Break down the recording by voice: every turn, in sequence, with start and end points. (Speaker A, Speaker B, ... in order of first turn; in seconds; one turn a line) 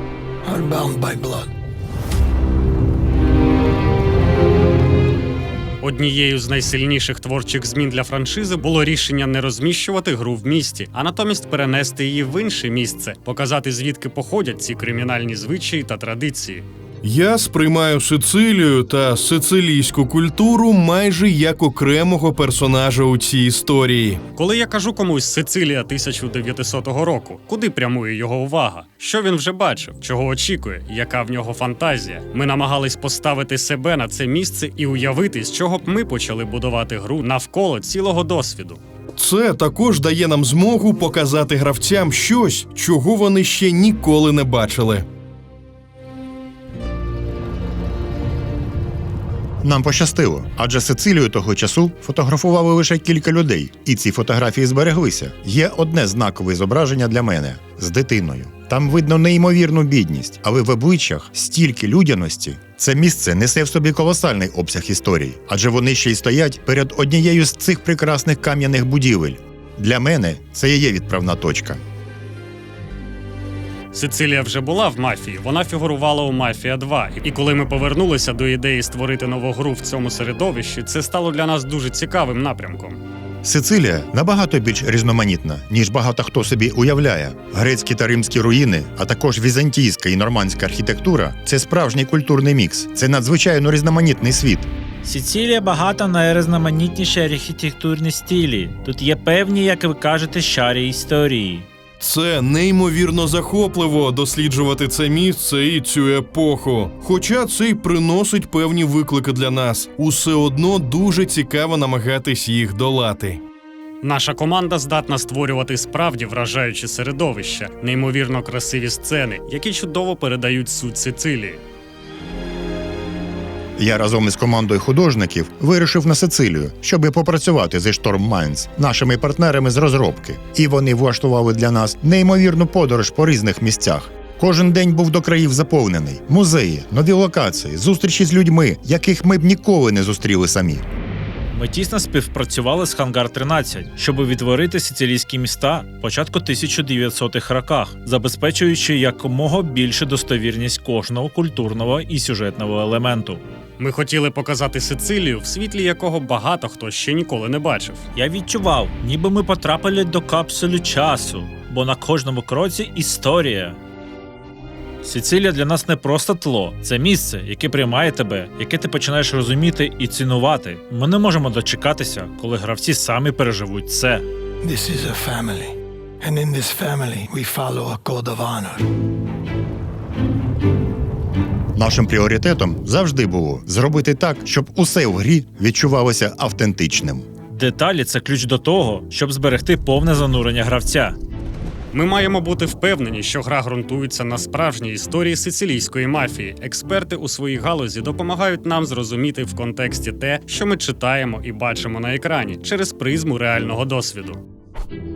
Speaker A: 0.4-1.5
Speaker B: 5.8-16.7
Speaker C: 17.0-24.2
Speaker B: 24.4-38.8
Speaker C: 39.2-45.0
Speaker D: 49.6-71.8
Speaker B: 73.9-83.0
Speaker D: 83.4-94.7
Speaker E: 95.0-101.7
Speaker C: 102.0-113.4
Speaker B: 114.0-121.6
Speaker D: 123.8-140.8
Speaker E: 141.5-153.4
Speaker B: 153.8-158.1
Speaker E: 158.1-163.8
Speaker E: 165.0-174.3
Speaker A: 174.6-178.9
Speaker D: 181.8-187.3
Speaker E: 187.5-191.2
Speaker B: 191.9-204.4